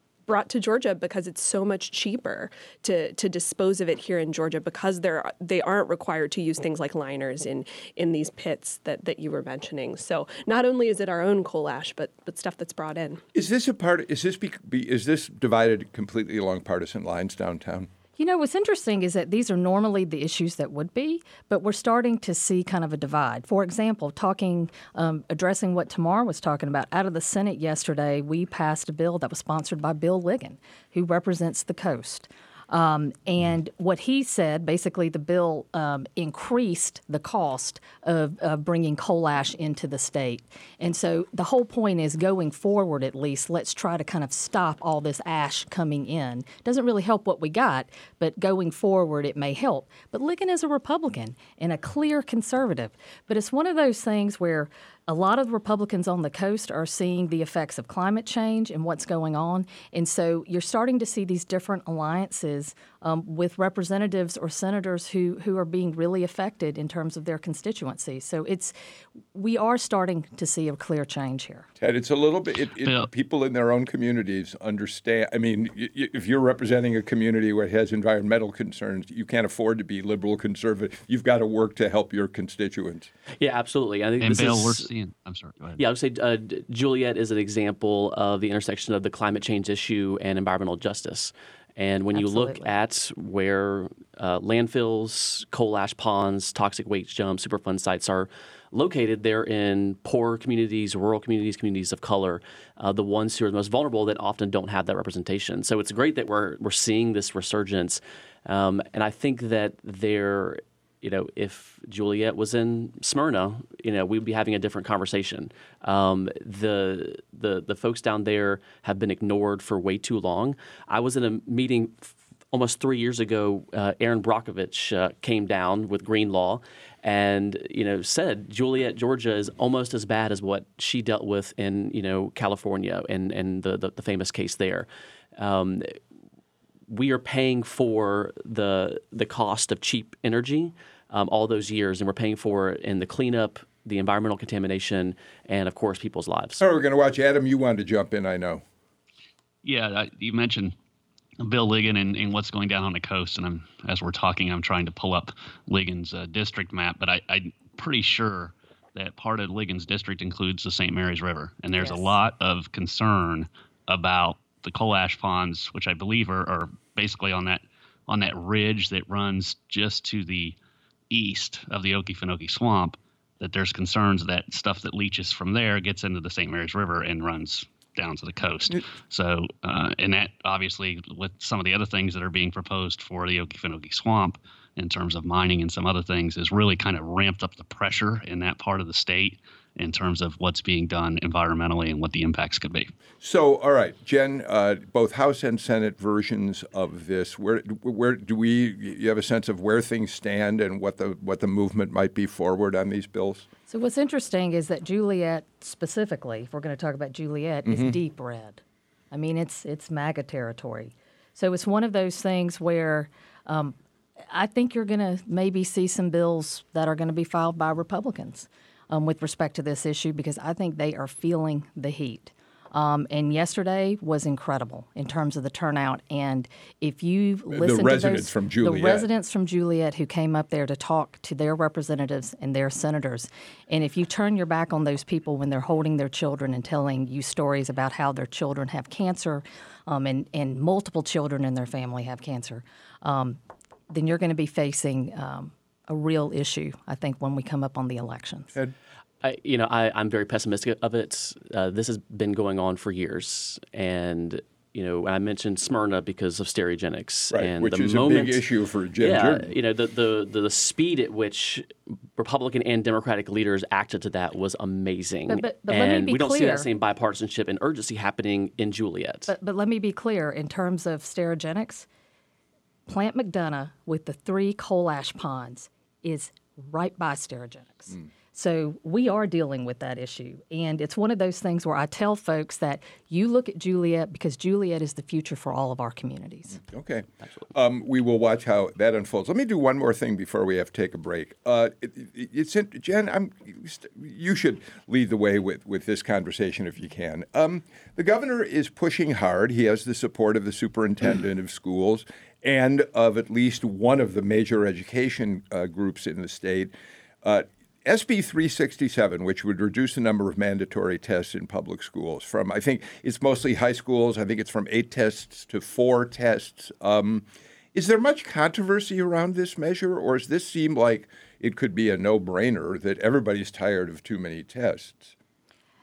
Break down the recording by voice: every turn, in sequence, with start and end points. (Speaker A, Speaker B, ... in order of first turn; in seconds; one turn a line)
Speaker A: 0.3-13.2
Speaker B: 13.3-17.9
Speaker C: 18.2-68.7
Speaker C: 69.3-71.7
Speaker B: 71.8-83.1
Speaker D: 83.4-84.9
Speaker E: 84.2-85.8
Speaker D: 85.8-136.0
Speaker C: 92.1-92.7
Speaker D: 136.9-146.6
Speaker B: 146.6-148.6
Speaker E: 149.6-150.7
Speaker E: 151.4-170.6
Speaker C: 161.8-162.1
Speaker E: 171.1-192.9
Speaker B: 193.2-203.5
Speaker C: 203.7-208.6
Speaker B: 207.7-208.0
Speaker C: 209.1-213.8
Speaker C: 214.3-243.4
Speaker B: 227.5-229.1
Speaker C: 243.9-248.5
Speaker D: 249.2-258.4
Speaker B: 257.3-259.5
Speaker D: 259.0-269.3
Speaker C: 265.3-266.7
Speaker C: 269.3-271.9
Speaker C: 272.9-286.6
Speaker B: 286.6-306.7
Speaker B: 307.2-325.1